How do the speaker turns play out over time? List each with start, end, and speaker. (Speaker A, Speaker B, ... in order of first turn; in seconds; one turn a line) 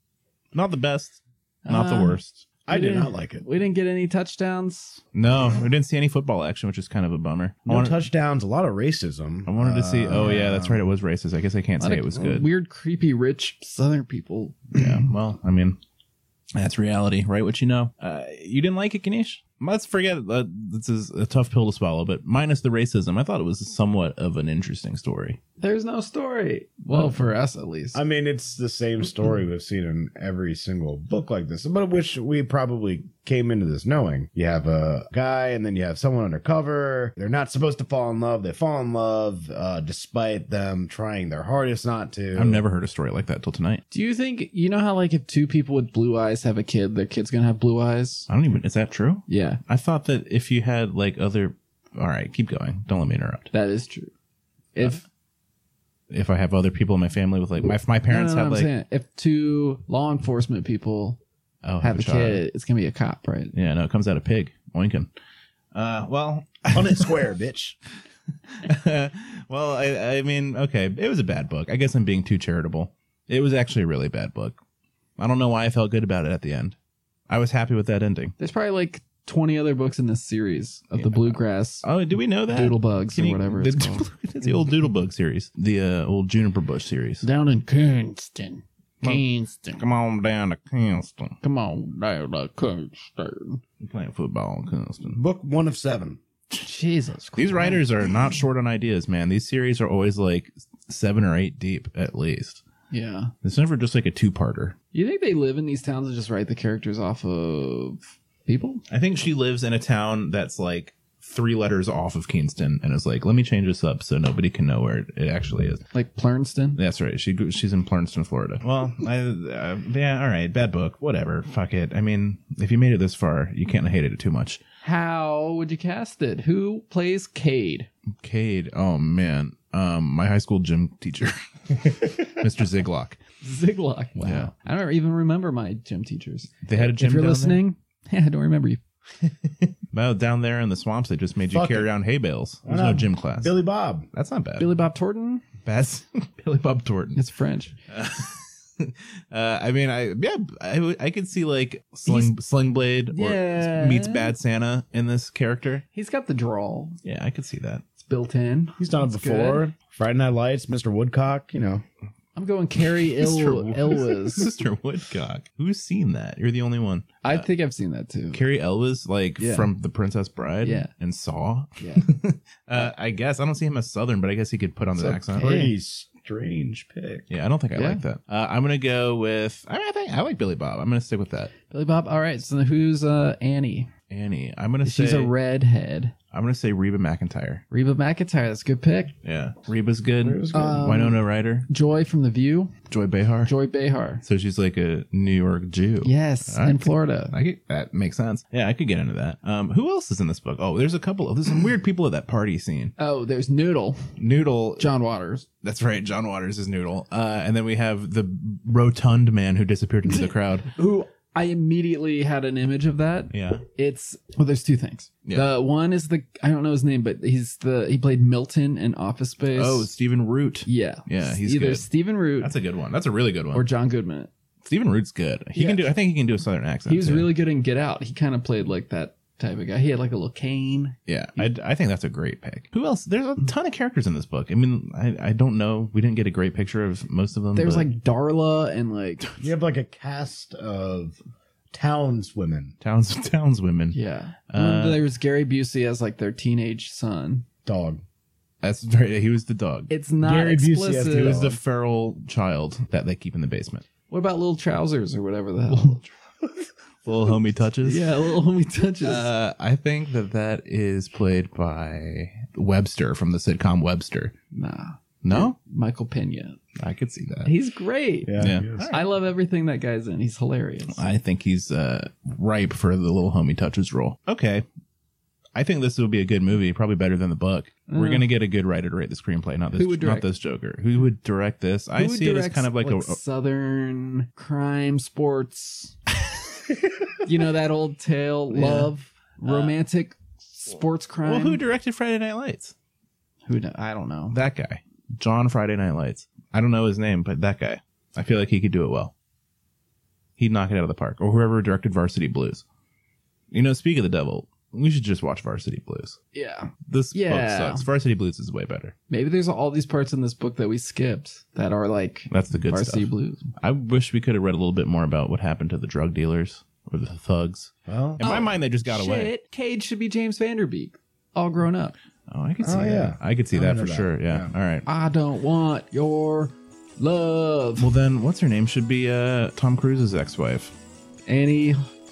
Speaker A: 0.5-2.5
Speaker B: 1.6-2.2
Speaker C: 2.7-3.5
Speaker B: 2.7-5.0
Speaker A: 5.1-8.1
Speaker C: 7.7-10.8
Speaker A: 9.4-12.5
Speaker B: 11.8-15.1
Speaker A: 14.7-15.8
Speaker A: 16.5-25.4
Speaker B: 25.6-28.0
Speaker A: 26.9-27.2
Speaker C: 27.9-42.6
Speaker A: 42.3-43.8
Speaker B: 43.9-48.3
Speaker A: 48.3-53.5
Speaker B: 49.3-49.6
Speaker B: 53.5-54.1
Speaker B: 54.7-55.0
Speaker A: 54.8-55.0
Speaker A: 56.1-58.7
Speaker B: 58.1-61.2
Speaker A: 61.6-62.4
Speaker B: 61.8-63.5
Speaker A: 63.5-65.1
Speaker A: 65.7-67.1
Speaker C: 66.7-67.8
Speaker A: 68.5-74.6
Speaker A: 75.2-76.8
Speaker A: 77.3-78.3
Speaker B: 78.4-81.8
Speaker A: 80.9-87.2
Speaker B: 82.5-84.1
Speaker B: 87.2-89.8
Speaker A: 89.0-91.4
Speaker B: 91.4-93.6
Speaker A: 93.8-95.2
Speaker C: 95.0-96.2
Speaker B: 96.6-97.9
Speaker A: 97.4-102.6
Speaker B: 102.9-103.3
Speaker A: 103.4-104.8
Speaker B: 104.9-108.8
Speaker A: 108.9-115.8
Speaker B: 115.9-116.8
Speaker A: 116.8-124.6
Speaker B: 124.8-127.9
Speaker A: 128.2-133.2
Speaker B: 133.4-138.8
Speaker A: 134.2-134.5
Speaker A: 136.6-137.6
Speaker A: 139.2-143.5
Speaker C: 141.5-141.9
Speaker C: 142.6-144.1
Speaker A: 144.1-144.7
Speaker B: 144.6-145.4
Speaker A: 145.6-147.2
Speaker B: 147.2-147.7
Speaker A: 147.9-155.8
Speaker B: 152.1-152.3
Speaker B: 153.1-154.3
Speaker B: 155.9-157.0
Speaker A: 157.0-157.8
Speaker B: 158.0-159.7
Speaker C: 158.8-161.8
Speaker B: 162.3-164.5
Speaker A: 163.0-167.5
Speaker B: 167.2-168.4
Speaker A: 168.3-175.7
Speaker B: 169.4-169.7
Speaker B: 170.6-170.9
Speaker B: 171.8-172.1
Speaker C: 175.0-177.3
Speaker B: 175.1-175.7
Speaker A: 177.3-181.5
Speaker B: 177.8-178.0
Speaker B: 181.7-183.9
Speaker A: 184.1-185.3
Speaker B: 184.8-186.1
Speaker A: 186.3-187.6
Speaker B: 187.7-189.1
Speaker A: 189.2-191.7
Speaker B: 190.3-192.7
Speaker A: 192.9-193.5
Speaker B: 193.4-194.2
Speaker A: 194.2-202.9
Speaker B: 196.0-197.3
Speaker B: 203.0-204.1
Speaker A: 204.2-204.9
Speaker B: 204.8-205.5
Speaker A: 205.6-210.7
Speaker B: 210.1-219.9
Speaker A: 213.3-213.6
Speaker A: 215.2-215.5
Speaker A: 219.5-221.8
Speaker B: 220.7-222.5
Speaker A: 222.4-223.7
Speaker B: 223.5-224.3
Speaker A: 224.6-227.3
Speaker B: 225.5-225.9
Speaker B: 226.9-231.5
Speaker A: 231.1-237.9
Speaker B: 237.5-239.2
Speaker C: 239.4-241.2
Speaker C: 241.7-242.7
Speaker A: 242.8-244.0
Speaker B: 243.9-247.4
Speaker A: 244.5-245.0
Speaker C: 247.7-248.0
Speaker A: 248.6-249.9
Speaker B: 249.9-251.5
Speaker C: 250.2-251.6
Speaker A: 251.0-253.8
Speaker B: 254.1-256.0
Speaker A: 255.7-256.1
Speaker A: 257.0-258.1
Speaker B: 257.8-259.3
Speaker A: 259.0-264.3
Speaker B: 264.5-266.6
Speaker A: 265.2-265.5
Speaker A: 266.8-267.5
Speaker B: 267.4-271.0
Speaker C: 268.2-268.9
Speaker A: 268.4-269.0
Speaker A: 270.9-274.6
Speaker A: 275.5-283.2
Speaker B: 277.9-278.3
Speaker B: 279.8-280.3
Speaker B: 281.9-286.0
Speaker B: 287.2-291.6
Speaker A: 288.5-288.9
Speaker A: 289.5-289.7
Speaker A: 291.2-292.7
Speaker B: 293.5-294.4
Speaker A: 294.3-299.1
Speaker A: 300.4-302.6
Speaker A: 303.5-306.2
Speaker B: 306.3-307.8
Speaker A: 306.9-308.9
Speaker B: 309.1-313.5
Speaker A: 312.3-319.3
Speaker C: 317.9-318.2
Speaker B: 318.2-321.9
Speaker A: 322.3-324.9
Speaker C: 322.6-324.5
Speaker B: 324.9-327.9
Speaker A: 327.8-330.7
Speaker B: 331.3-331.8